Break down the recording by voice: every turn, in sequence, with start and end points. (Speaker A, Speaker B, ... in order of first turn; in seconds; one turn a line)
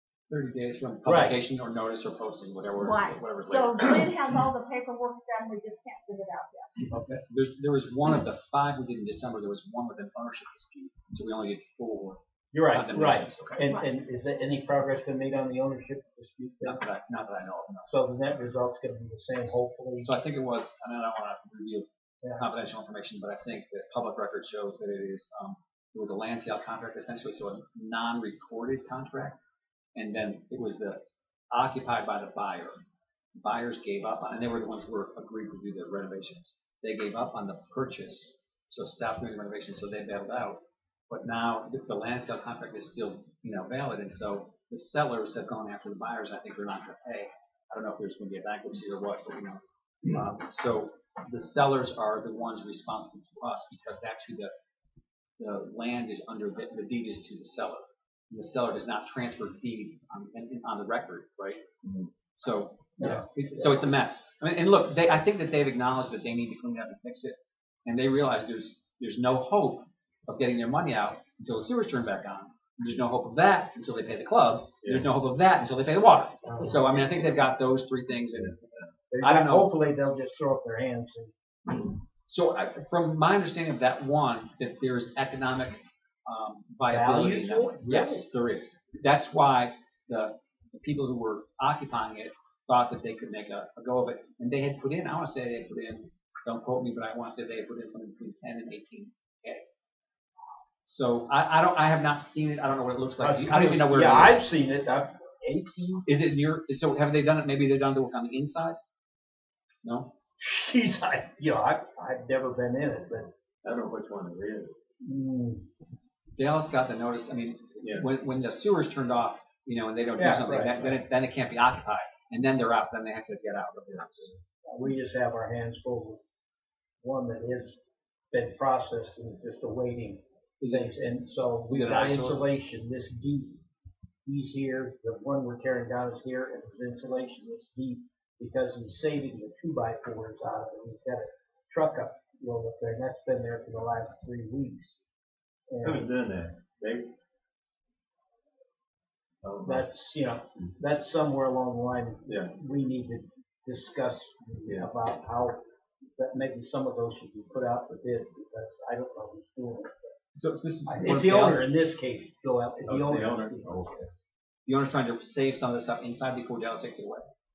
Speaker A: 0.3-4.1
Speaker B: 1.0-1.4
Speaker C: 2.8-6.9
Speaker A: 6.9-13.7
Speaker B: 12.5-16.8
Speaker A: 16.6-17.9
Speaker B: 17.9-20.1
Speaker A: 19.4-21.9
Speaker B: 22.2-22.5
Speaker A: 22.4-29.4
Speaker A: 29.9-32.8
Speaker A: 33.4-54.5
Speaker A: 55.4-61.7
Speaker A: 62.3-79.7
Speaker B: 63.0-63.9
Speaker D: 74.8-75.1
Speaker B: 76.5-76.8
Speaker B: 79.1-81.3
Speaker A: 82.3-99.7
Speaker B: 86.9-88.3
Speaker A: 100.8-104.5
Speaker B: 103.2-106.0
Speaker A: 106.0-108.8
Speaker A: 109.8-110.1
Speaker B: 110.4-113.3
Speaker D: 113.6-114.8
Speaker B: 115.0-115.7
Speaker A: 116.4-124.3
Speaker D: 117.8-118.1
Speaker B: 120.2-121.0
Speaker B: 124.7-126.2
Speaker B: 127.0-127.8
Speaker B: 128.3-133.6
Speaker A: 130.6-130.9
Speaker A: 131.7-132.5
Speaker B: 134.2-145.0
Speaker B: 145.7-146.1
Speaker D: 145.8-147.1
Speaker D: 149.4-149.9
Speaker B: 149.6-160.2
Speaker D: 152.3-152.5
Speaker A: 160.3-161.7
Speaker B: 160.9-163.9
Speaker D: 162.9-164.1
Speaker A: 164.7-167.3